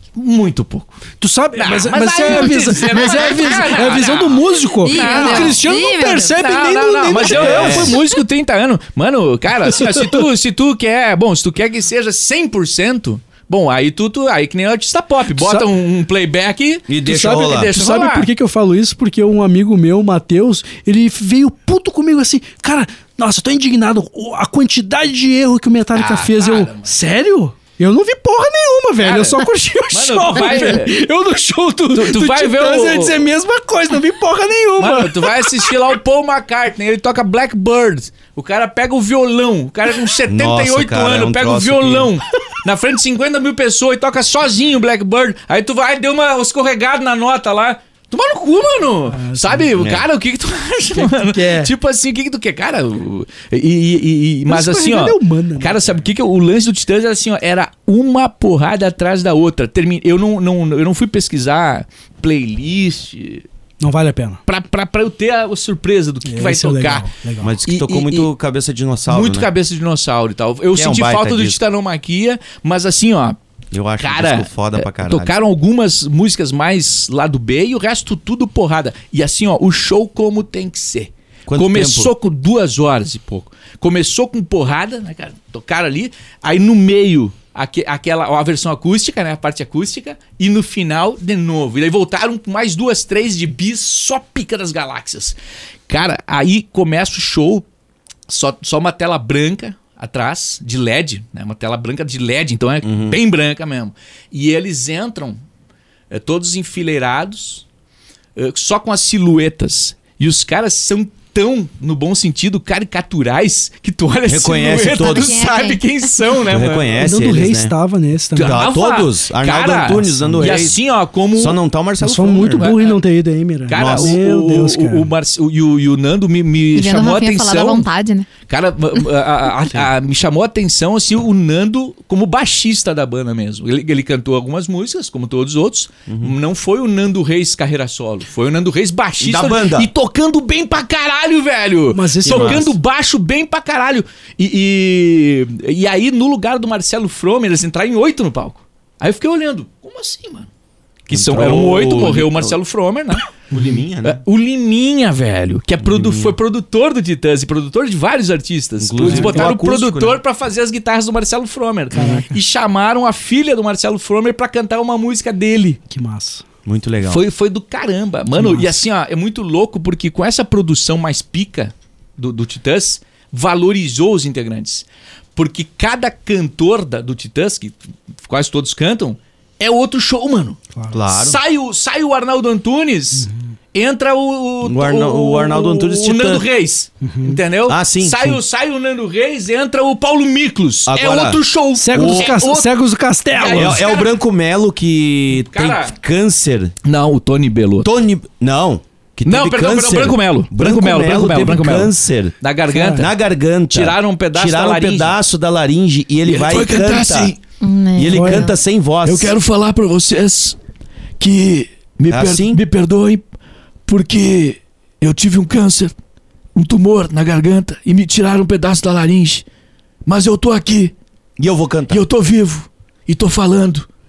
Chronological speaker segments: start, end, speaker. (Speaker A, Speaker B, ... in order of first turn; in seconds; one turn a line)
Speaker A: 0.1-1.0
Speaker B: 1.2-8.0
Speaker A: 1.6-5.6
Speaker C: 4.8-6.4
Speaker A: 6.3-18.3
Speaker D: 7.2-8.0
Speaker B: 9.7-10.2
Speaker B: 15.3-15.7
Speaker D: 16.9-17.7
Speaker B: 17.1-35.7
Speaker A: 25.9-26.9
Speaker A: 29.0-30.9
Speaker A: 31.9-33.2
Speaker A: 34.8-63.5
Speaker D: 40.3-42.1
Speaker B: 49.1-49.7
Speaker D: 49.8-50.0
Speaker B: 50.9-51.7
Speaker B: 54.5-56.0
Speaker B: 63.8-64.4
Speaker A: 64.5-67.1
Speaker B: 66.2-67.6
Speaker D: 67.4-69.5
Speaker A: 67.7-68.3
Speaker A: 69.1-73.4
Speaker D: 70.7-71.6
Speaker D: 73.7-75.3
Speaker A: 74.0-95.3
Speaker D: 81.5-82.1
Speaker A: 95.9-97.7
Speaker A: 98.3-105.4
Speaker D: 102.8-103.2
Speaker A: 106.1-107.6
Speaker A: 108.3-117.4
Speaker D: 114.3-115.4
Speaker C: 114.9-116.1
Speaker D: 116.5-117.7
Speaker B: 117.0-118.7
Speaker A: 118.3-121.6
Speaker D: 118.4-120.8
Speaker B: 120.0-120.7
Speaker D: 121.3-122.7
Speaker B: 122.0-125.1
Speaker A: 122.5-123.0
Speaker A: 123.7-127.9
Speaker D: 123.7-124.2
Speaker C: 126.7-128.3
Speaker A: 128.4-150.5
Speaker D: 136.1-136.3
Speaker D: 139.2-139.9
Speaker B: 141.9-142.7
Speaker D: 142.2-142.7
Speaker A: 151.1-165.8
Speaker D: 151.1-152.6
Speaker D: 153.5-154.2
Speaker D: 155.8-156.4
Speaker D: 158.8-160.2
Speaker B: 159.0-159.5
Speaker B: 161.9-162.3
Speaker B: 165.9-166.4
Speaker D: 166.6-167.2
Speaker A: 167.1-174.8
Speaker B: 168.3-168.8
Speaker A: 175.3-180.6
Speaker B: 180.8-181.0
Speaker D: 180.9-181.4
Speaker A: 181.1-192.7
Speaker B: 183.2-183.5
Speaker D: 184.6-186.4
Speaker B: 187.0-187.4
Speaker D: 187.7-188.4
Speaker D: 190.9-191.4
Speaker B: 191.8-193.9
Speaker D: 191.9-192.3
Speaker A: 193.3-194.1
Speaker D: 193.5-196.7
Speaker A: 195.5-195.9
Speaker A: 196.8-197.9
Speaker D: 197.8-202.3
Speaker A: 199.2-203.1
Speaker B: 202.7-203.0
Speaker D: 202.9-207.3
Speaker A: 203.7-205.1
Speaker A: 206.2-207.4
Speaker C: 207.6-208.5
Speaker D: 207.9-209.4
Speaker B: 208.1-208.5
Speaker A: 209.0-210.6
Speaker A: 211.2-213.2
Speaker D: 212.1-212.6
Speaker A: 213.9-215.9
Speaker A: 216.5-219.4
Speaker A: 220.0-220.9
Speaker D: 221.4-222.0
Speaker A: 221.9-223.8